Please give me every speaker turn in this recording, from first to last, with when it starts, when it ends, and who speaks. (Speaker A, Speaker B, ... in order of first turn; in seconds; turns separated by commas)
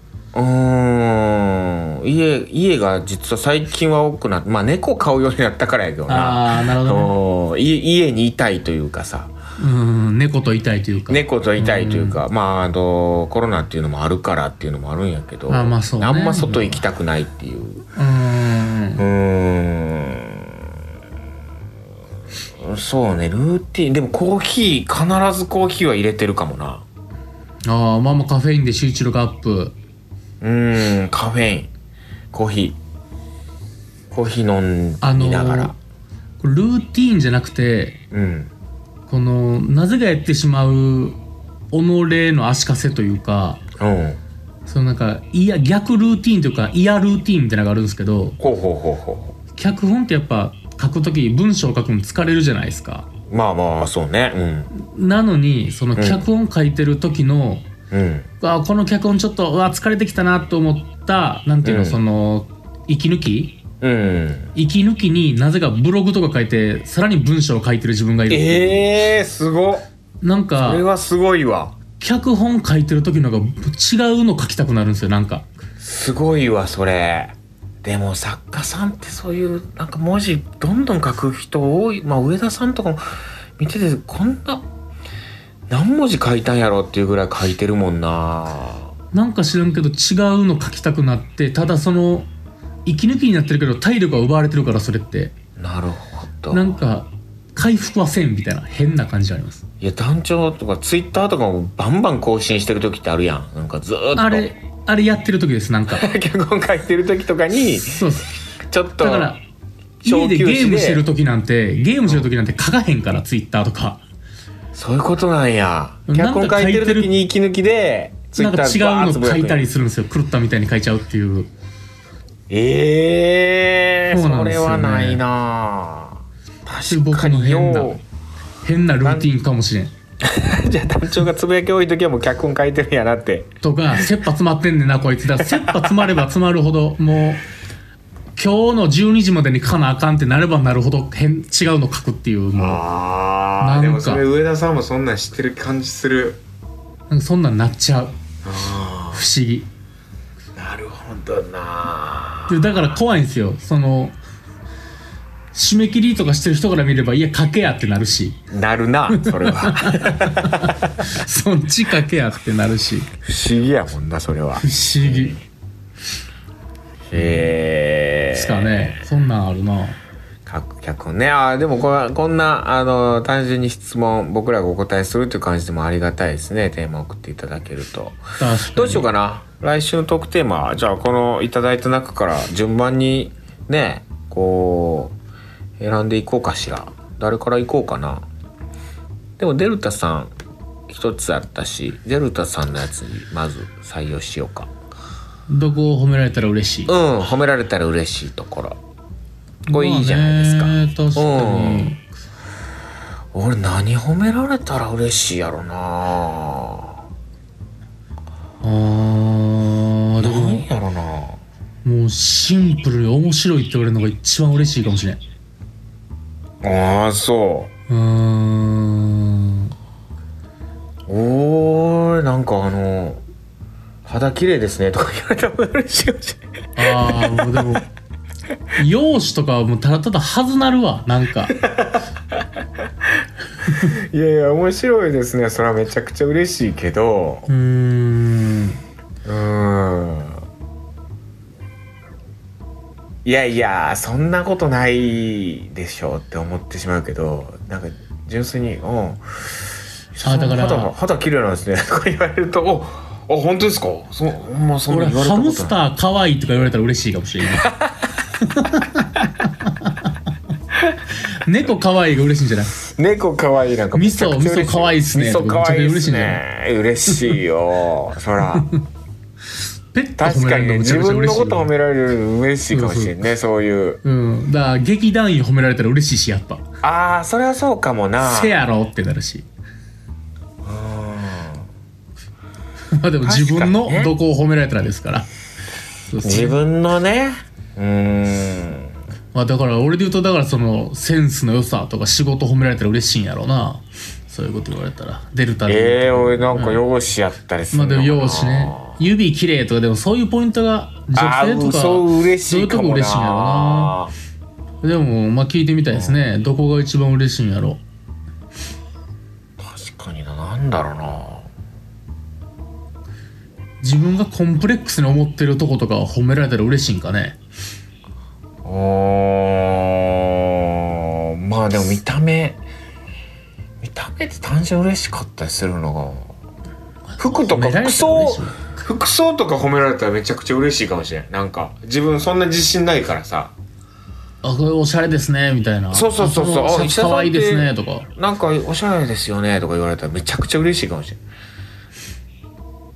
Speaker A: 0.3-9.3, Speaker B: 6.1-7.1, Speaker B: 9.6-12.2, Speaker A: 11.1-17.8, Speaker B: 15.5-16.8, Speaker B: 17.9-19.0, Speaker A: 19.0-20.5, Speaker A: 22.6-26.8, Speaker B: 27.6-29.7, Speaker A: 30.4-31.7, Speaker A: 32.3-32.8, Speaker A: 34.1-35.7, Speaker B: 35.0-35.7, Speaker B: 36.4-38.0, Speaker A: 38.1-38.5, Speaker B: 39.1-41.2, Speaker B: 41.7-43.6, Speaker A: 43.8-44.2, Speaker B: 44.6-48.4, Speaker A: 48.4-49.3, Speaker B: 49.5-53.1, Speaker A: 53.3-54.7, Speaker B: 54.7-57.6, Speaker A: 56.0-56.3, Speaker A: 57.9-58.3, Speaker B: 58.4-63.6, Speaker A: 61.6-62.0, Speaker A: 63.8-64.5, Speaker B: 64.5-68.8, Speaker A: 68.3-69.9, Speaker B: 70.2-70.8, Speaker A: 70.6-71.7, Speaker B: 72.0-75.5, Speaker A: 75.8-83.0, Speaker A: 83.6-84.6, Speaker A: 85.7-88.9, Speaker B: 89.1-92.3, Speaker B: 92.8-95.3, Speaker A: 95.6-96.8, Speaker B: 96.5-99.7, Speaker A: 99.8-104.5, Speaker B: 104.2-106.1, Speaker A: 105.9-108.0, Speaker B: 107.8-108.3, Speaker A: 108.7-109.3, Speaker B: 109.0-109.4, Speaker A: 110.0-111.0, Speaker B: 110.0-114.0, Speaker A: 114.7-119.7, Speaker B: 116.1-117.1, Speaker B: 118.4-121.5, Speaker A: 122.5-128.0, Speaker B: 124.1-125.2, Speaker B: 126.9-128.0, Speaker B: 128.6-129.9, Speaker A: 129.0-129.3, Speaker A: 130.2-133.5, Speaker B: 133.6-137.4, Speaker A: 135.5-135.9, Speaker B: 138.3-142.8, Speaker A: 142.6-146.4, Speaker B: 143.6-144.2, Speaker B: 147.1-148.1, Speaker A: 148.4-149.2, Speaker B: 149.1-149.7, Speaker A: 150.6-152.6, Speaker B: 152.5-154.2, Speaker B: 155.5-158.4, Speaker A: 158.5-160.9, Speaker B: 159.1-163.1, Speaker A: 163.2-165.4, Speaker B: 164.6-165.4, Speaker A: 167.1-169.0, Speaker B: 167.1-167.5, Speaker B: 168.3-170.0, Speaker A: 170.4-185.1, Speaker B: 178.4-179.1, Speaker A: 185.8-188.2, Speaker A: 189.4-190.3, Speaker A: 190.9-194.7, Speaker B: 195.5-196.9, Speaker A: 196.9-198.8, Speaker B: 199.7-202.0, Speaker A: 199.7-201.9, Speaker A: 203.3-206.9, Speaker B: 208.6-210.7, Speaker A: 210.2-211.4, Speaker B: 211.8-215.2, Speaker A: 216.6-217.7, Speaker B: 217.9-219.7, Speaker A: 221.1-223.2, Speaker A: 224.0-227.8, Speaker B: 226.8-227.9, Speaker B: 228.8-231.5, Speaker A: 231.6-232.4, Speaker A: 233.7-237.5, Speaker B: 237.5-238.8, Speaker A: 239.2-240.4, Speaker A: 243.2-249.6, Speaker A: 250.1-255.8, Speaker B: 250.2-250.9, Speaker B: 254.9-257.7, Speaker A: 257.6-257.9, Speaker B: 258.4-260.1, Speaker B: 261.4-262.7, Speaker A: 262.9-268.7, Speaker B: 263.9-266.4, Speaker B: 267.1-267.4, Speaker B: 268.5-268.8, Speaker B: 269.9-271.7, Speaker A: 270.2-274.0, Speaker B: 272.7-273.2, Speaker B: 274.0-276.6, Speaker A: 276.8-278.6, Speaker B: 278.2-279.4, Speaker A: 280.6-281.6, Speaker B: 282.9-285.3, Speaker A: 283.2-284.1, Speaker B: 286.1-286.6, Speaker A: 286.2-288.9, Speaker B: 289.3-296.8, Speaker A: 295.7-299.0, Speaker B: 297.7-304.0, Speaker A: 301.1-304.1, Speaker B: 304.8-307.8, Speaker A: 305.9-306.2, Speaker A: 309.6-311.5, Speaker B: 313.8-317.4, Speaker A: 318.6-322.6, Speaker A: 323.8-326.3, Speaker B: 327.1-328.6, Speaker A: 327.2-333.5, Speaker B: 334.4-338.1, Speaker A: 335.9-341.2